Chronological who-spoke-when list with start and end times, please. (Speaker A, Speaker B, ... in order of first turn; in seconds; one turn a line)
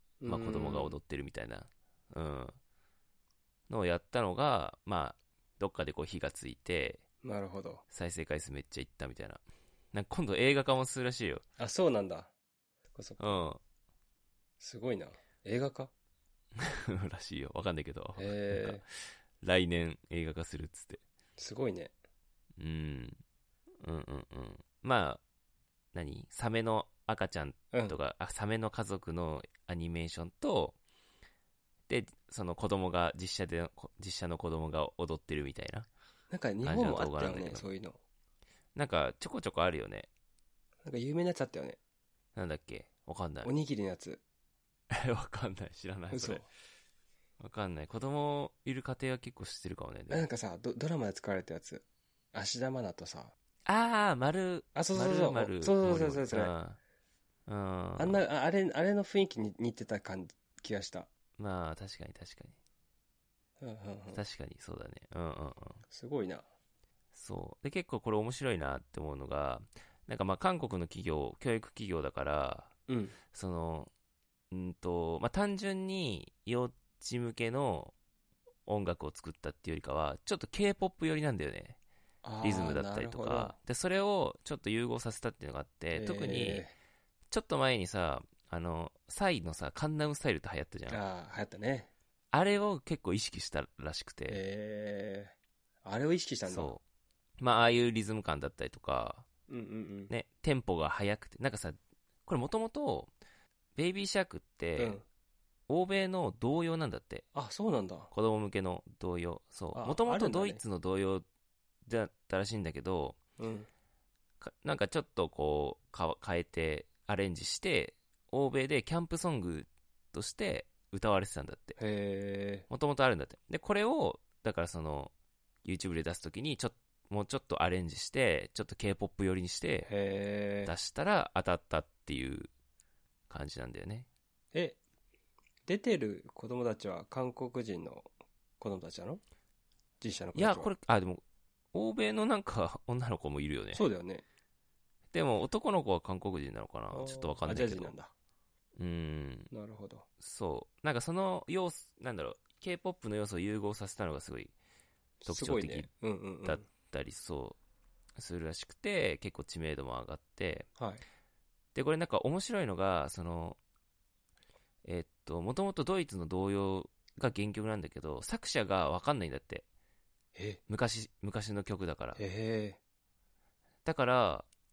Speaker A: 0.2-1.0
Speaker B: 0.3-2.5
Speaker B: 3.7-7.0
Speaker A: 7.2-7.8
Speaker B: 7.9-9.4
Speaker B: 9.9-11.4
Speaker A: 11.6-12.3
Speaker A: 12.9-13.4
Speaker B: 13.2-13.6
Speaker A: 14.6-15.9
Speaker B: 16.6-21.0
Speaker A: 18.2-18.8
Speaker A: 21.4-21.9
Speaker B: 22.6-23.2
Speaker B: 23.8-25.2
Speaker B: 25.9-30.8
Speaker B: 31.9-35.9
Speaker A: 36.3-38.0
Speaker B: 36.6-37.7
Speaker B: 38.7-40.1
Speaker A: 40.8-41.8
Speaker B: 42.3-43.5
Speaker A: 43.4-44.2
Speaker B: 44.9-46.5
Speaker A: 46.1-46.5
Speaker B: 47.4-50.3
Speaker A: 50.1-53.3
Speaker B: 53.6-56.8
Speaker A: 54.7-56.5
Speaker B: 57.5-58.2
Speaker A: 58.0-61.1
Speaker B: 61.4-62.5
Speaker A: 63.6-64.2
Speaker B: 64.1-65.8
Speaker A: 65.9-66.5
Speaker B: 67.1-72.7
Speaker A: 72.9-73.2
Speaker B: 73.3-73.9
Speaker B: 74.5-77.9
Speaker B: 78.7-81.8
Speaker A: 82.2-83.5
Speaker B: 82.4-86.7
Speaker A: 85.9-86.7
Speaker B: 87.3-91.0
Speaker A: 90.9-91.9
Speaker B: 92.3-94.4
Speaker A: 94.3-96.7
Speaker B: 96.5-96.8
Speaker B: 97.4-99.2
Speaker A: 99.5-100.1
Speaker B: 100.1-103.1
Speaker B: 103.8-105.0
Speaker A: 104.8-105.0
Speaker B: 105.7-107.2
Speaker A: 107.3-108.1
Speaker B: 108.1-111.2
Speaker A: 109.7-110.6
Speaker B: 111.8-113.2
Speaker A: 113.4-113.7
Speaker B: 114.4-121.8
Speaker A: 121.8-122.7
Speaker B: 122.7-125.1
Speaker B: 125.6-129.9
Speaker A: 129.8-130.7
Speaker B: 130.6-132.5
Speaker B: 133.3-134.1
Speaker A: 134.5-134.8
Speaker A: 135.7-138.1
Speaker A: 138.6-139.2
Speaker A: 140.0-140.7
Speaker B: 140.3-143.8
Speaker A: 143.7-144.2
Speaker B: 145.1-147.9
Speaker A: 146.9-148.1
Speaker B: 148.8-149.5
Speaker A: 149.5-150.1
Speaker B: 150.2-154.5
Speaker A: 155.2-156.6
Speaker B: 155.2-155.9
Speaker B: 156.4-157.6
Speaker B: 158.2-160.7
Speaker A: 160.8-161.0
Speaker B: 161.7-163.6
Speaker B: 164.8-169.7
Speaker A: 170.3-170.6
Speaker B: 170.7-172.2
Speaker A: 172.2-172.8
Speaker B: 173.8-174.5